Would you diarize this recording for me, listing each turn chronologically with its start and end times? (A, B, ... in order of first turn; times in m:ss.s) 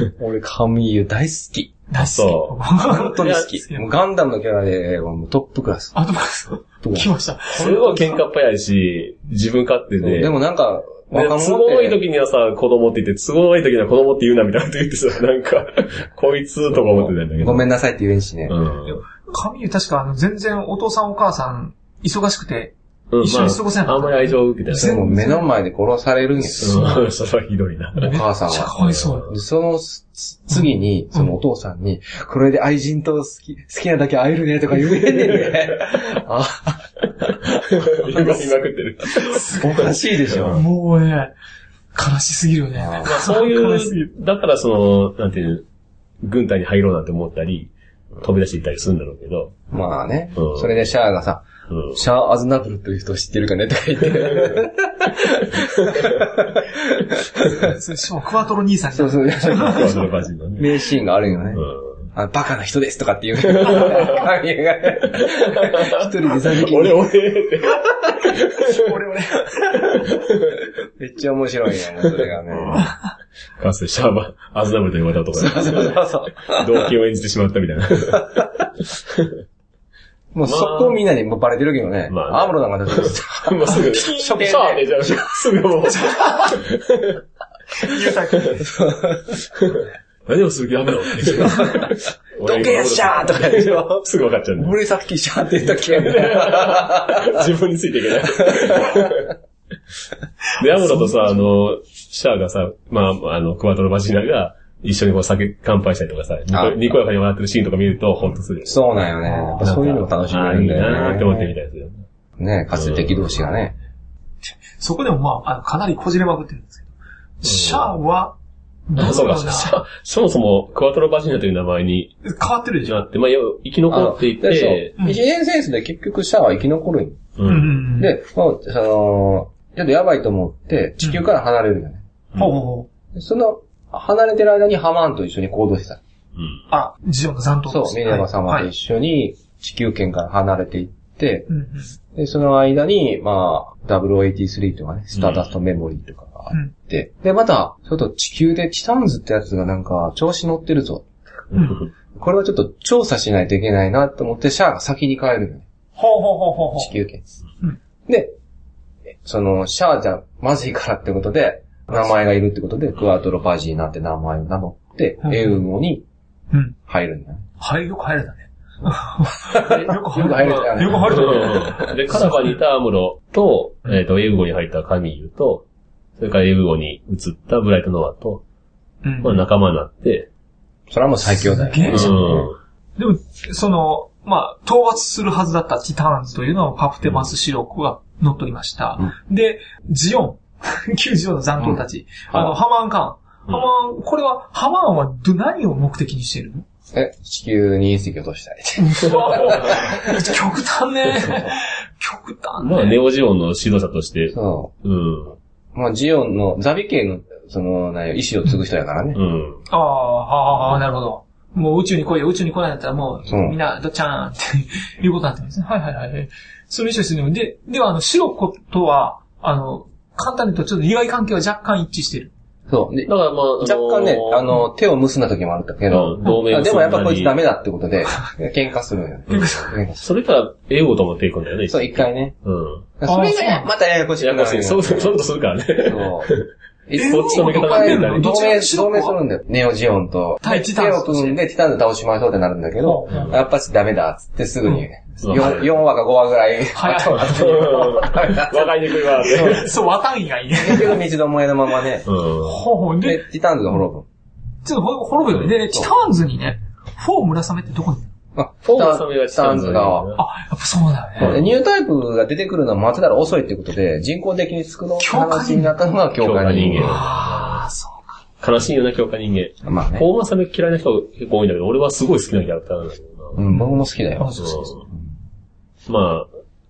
0:00.2-0:01.8 A
0:01.9-0:03.9 B
0:02.0-0:02.7 C
0:02.8-0:05.9 A
0:03.2-0:03.5 C
0:05.9-0:08.2 B
0:06.8-0:08.1 A
0:07.5-0:10.3 C
0:10.0-0:12.0 A
0:11.1-0:17.6 C
0:16.7-0:18.5 A
0:18.5-0:19.0 C
0:18.9-0:25.5 B
0:23.1-0:25.1 C
0:24.7-0:27.0 A
0:26.6-0:28.2 C
0:26.7-0:27.0 B
0:28.0-0:29.2 B
0:28.0-0:28.8 A
0:28.8-0:29.3 C
0:29.3-0:38.5 A
0:31.1-0:31.4 B
0:34.8-0:36.2 C
0:37.2-0:39.6 C
0:39.1-0:39.8 B
0:39.3-0:40.6 A
0:40.3-0:40.6 C
0:40.5-0:41.3 B
0:41.9-0:44.1 B
0:42.8-0:43.1 A
0:43.0-0:45.6 C
0:46.2-0:49.5 C
0:49.7-0:57.7 A
0:50.4-0:50.7 C
0:51.7-0:52.0 C
0:57.6-1:00.1 B
0:58.9-1:07.1 A
0:59.5-1:00.7 C
1:01.5-1:02.0 C
1:03.4-1:04.2 C
1:05.1-1:08.8 C
1:08.6-1:10.1 B
1:09.9-1:10.6 C
1:11.0-1:12.9 A
1:12.1-1:12.9 C
1:13.6-1:19.3 C
1:15.3-1:16.8 A
1:20.3-1:25.3 A
1:20.4-1:21.0 C
1:22.1-1:27.2 C
1:25.9-1:26.6 B
1:27.8-1:28.6 B
1:28.6-1:29.3 A
1:29.5-1:34.8 C
1:31.2-1:34.0 A
1:34.6-1:37.5 A
1:35.7-1:39.3 C
1:38.4-1:39.2 A
1:40.6-1:49.0 C
1:40.8-1:41.4 B
1:46.5-1:46.9 A
1:48.6-1:51.5 A
1:49.2-1:49.6 B
1:49.6-1:52.0 C
1:52.4-1:53.8 A
1:52.7-1:53.4 C
1:54.4-1:56.9 B
1:57.4-1:58.3 B
1:57.4-1:57.9 C
1:58.9-1:59.8 B
1:59.0-2:02.2 C
2:02.2-2:03.0 B
2:02.8-2:04.9 C
2:03.9-2:07.3 A
2:07.4-2:07.8 C
2:07.4-2:08.1 B
2:08.0-2:12.0 A
2:12.4-2:12.9 B
2:13.1-2:16.0 A
2:16.7-2:18.7 B
2:17.7-2:21.5 A
2:21.5-2:21.9 B
2:22.1-2:31.0 A
2:25.1-2:25.4 C
2:31.5-2:31.9 C
2:31.5-2:31.8 B
2:32.1-2:35.6 A
2:36.0-2:36.9 B
2:36.8-2:37.2 A
2:38.1-2:38.3 A
2:39.1-2:46.0 A
2:45.2-2:45.6 B
2:46.5-2:46.8 B
2:46.9-2:47.4 A
2:47.6-2:52.6 B
2:49.4-2:51.9 A
2:50.4-2:55.6 C
2:56.2-2:58.4 C
2:59.0-2:59.4 B
2:59.2-3:00.3 C
3:00.9-3:02.2 A
3:01.4-3:16.6 B
3:01.9-3:02.6 C
3:16.9-3:20.2 A
3:18.8-3:23.0 B
3:19.4-3:19.8 C
3:22.6-3:25.4 C
3:24.3-3:24.7 A
3:25.7-3:29.2 A
3:29.1-3:29.6 C
3:29.7-3:42.3 B
3:33.3-3:33.6 A
3:42.7-3:50.0 A
3:43.0-3:44.6 C
3:45.9-3:47.4 C
3:49.3-3:49.8 B
3:50.0-3:52.8 C
3:51.7-3:52.4 A
3:53.0-3:55.2 A
3:53.0-3:53.7 B
3:54.2-3:58.3 C
3:55.8-3:56.3 A
3:56.9-4:09.7 A
3:56.9-3:59.2 B
4:00.4-4:01.4 B
4:02.8-4:03.3 B
4:05.2-4:05.7 C
4:06.7-4:08.1 B
4:07.0-4:09.7 C
4:09.3-4:11.0 B
4:10.6-4:12.0 A
4:12.0-4:12.6 C
4:12.4-4:13.2 B
4:13.0-4:14.0 A
4:14.6-4:18.1 B
4:18.3-4:20.1 A
4:18.6-4:20.2 C
4:20.2-4:21.4 B
4:21.2-4:27.0 A
4:21.2-4:21.4 C
4:25.0-4:25.7 B
4:26.2-4:27.6 C
4:26.8-4:28.1 B
4:28.4-4:33.4 C
4:29.6-4:30.1 A
4:33.4-4:34.4 A
4:33.5-4:34.7 B
4:34.4-4:34.8 C
4:35.9-4:36.3 C